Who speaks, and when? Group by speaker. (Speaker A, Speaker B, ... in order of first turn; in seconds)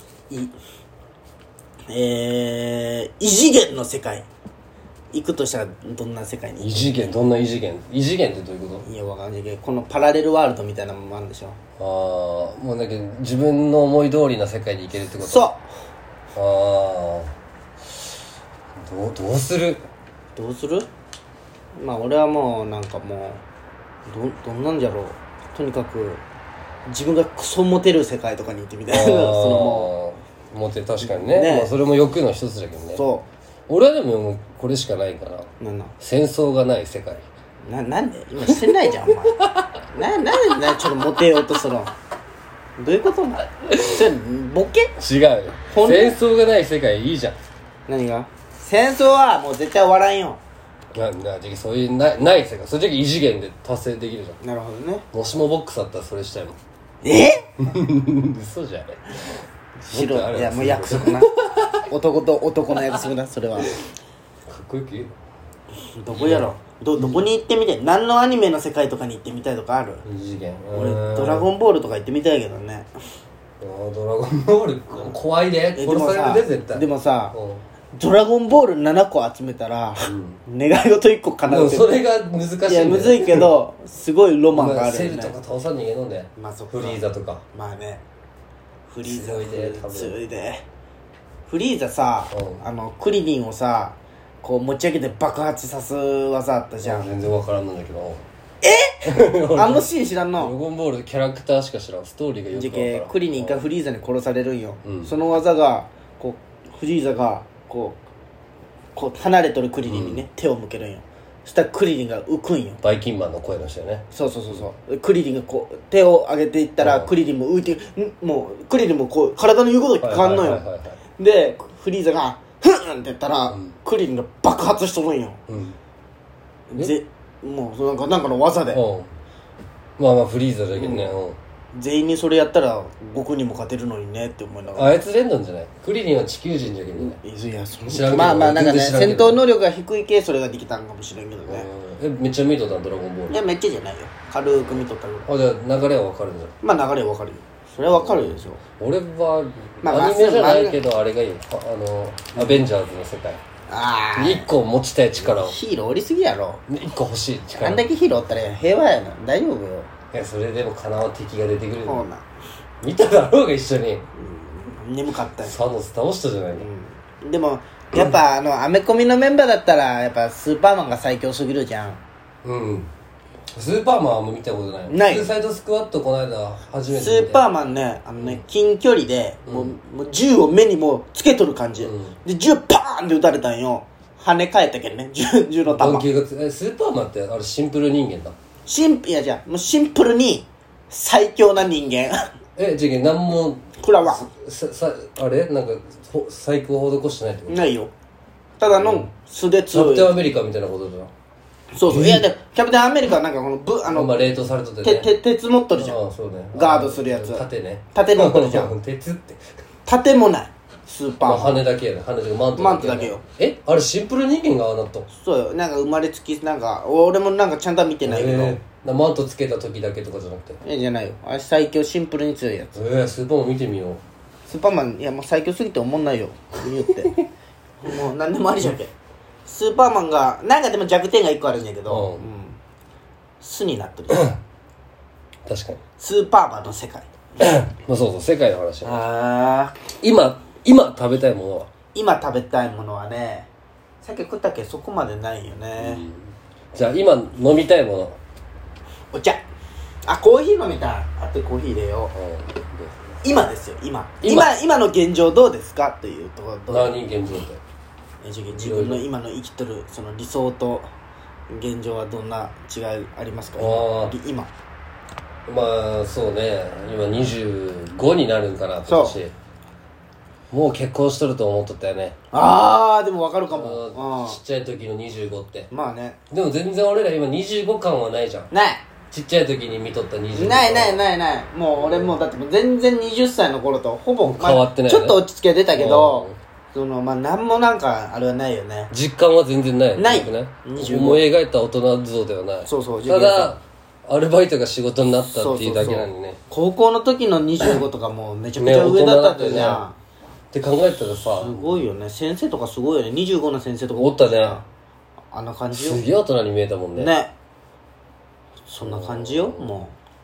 Speaker A: 1.9-4.3, 5.1-7.0, 8.8-11.6, 15.2-15.7, 20.4-20.9, 21.8-23.4, 24.1-26.2, 26.9-29.9, 31.0-31.7, 32.9-33.3, 35.6-35.9, 37.7-39.4, 39.9-41.9, 42.8-45.0, 45.7-46.2, 47.9-50.4, 54.4-55.1, 57.0-57.7, 59.9-61.3, 61.9-63.8, 66.0-70.0, 70.7-72.9, 75.8-77.3, 77.9-81.9, 82.7-85.3, 86.4-88.0, 88.9-90.7, 91.5-97.1, 98.6-100.5, 102.5-108.0, 109.0-112.8, 114.1-120.6, 121.2-125.4, 126.7-128.8, 130.8-131.2, 131.7-135.0, 137.0-141.7, 143.3-145.3, 146.6-148.6, 149.8-150.8, 152.3-152.7, 153.7-154.5, 155.2-156.6, 157.6-159.9, 161.8-162.3, 164.2-165.6, 166.6-172.0, 174.9-175.3, 176.9-186.1, 188.7-192.3, 193.8-194.3, 197.5-197.9, 198.6-200.1, 201.7-204.3, 204.8-206.0, 206.5-208.7, 209.9-211.6, 212.6-213.2, 215.1-218.6, 220.6-222.8, 224.5-227.2, 227.8-228.9, 229.5-232.6, 233.4-234.3, 236.0-237.1, 238.8-239.8, 241.9-243.5, 244.0-246.0, 249.1-249.4, 250.1-252.1, 253.2-257.0, 258.2-260.9, 261.5-264.5, 268.9-269.2, 272.3-274.4, 275.7-276.2, 278.5-278.9, 280.4-288.9, 290.0-291.2, 292.7-293.6, 295.2-300.0, 301.4-304.6, 305.3-306.0, 306.9-307.3, 308.7-309.9
Speaker B: 6.6-8.9, 11.8-15.5, 16.4-17.3, 18.8-19.9, 28.9-33.0, 33.7-35.5, 36.0-37.3, 38.5-39.8, 43.7-44.0, 45.0-47.4, 50.9-54.4, 55.1-56.6, 57.7-61.9, 64.5-65.1, 66.1-67.2, 70.0-71.5, 73.6-77.6, 80.0-80.4, 81.5-83.5, 84.5-87.4, 89.0-90.2, 92.3-92.6, 96.8-98.2, 99.0-103.6, 104.8-105.1, 109.9-110.2, 112.8-114.6, 116.8-117.1, 120.0-121.0, 125.5-125.8, 128.7-129.1, 130.0-131.4, 134.8-137.2, 137.8-139.4, 141.5-143.4, 144.4-146.6, 147.9-153.4, 154.2-155.6, 156.7-157.8, 160.1-162.0, 162.8-164.1, 165.4-166.7, 172.4-172.9, 173.5-177.4, 178.2-178.4, 179.5-179.7, 181.8-182.2, 185.7-188.4, 192.6-197.6, 198.7-199.1, 199.7-201.1, 201.9-202.3, 203.9-205.1, 205.8-209.5, 211.2-215.1, 218.1-220.6, 222.7-224.0, 231.9-232.2, 234.1-234.4, 235.5-235.8, 237.4-239.0, 240.0-241.7, 245.8-248.2, 252.1-253.2, 254.2-254.5, 256.7-257.6, 258.5-259.0, 263.6-264.1, 265.5-269.3, 270.5-272.1, 273.5-275.7, 276.3-278.5, 279.1-281.0, 281.8-282.2, 284.2-285.2, 285.7-286.4, 288.9-296.4, 298.6-299.8, 300.5-301.7, 304.0-304.6, 305.7-307.1, 308.8-309.7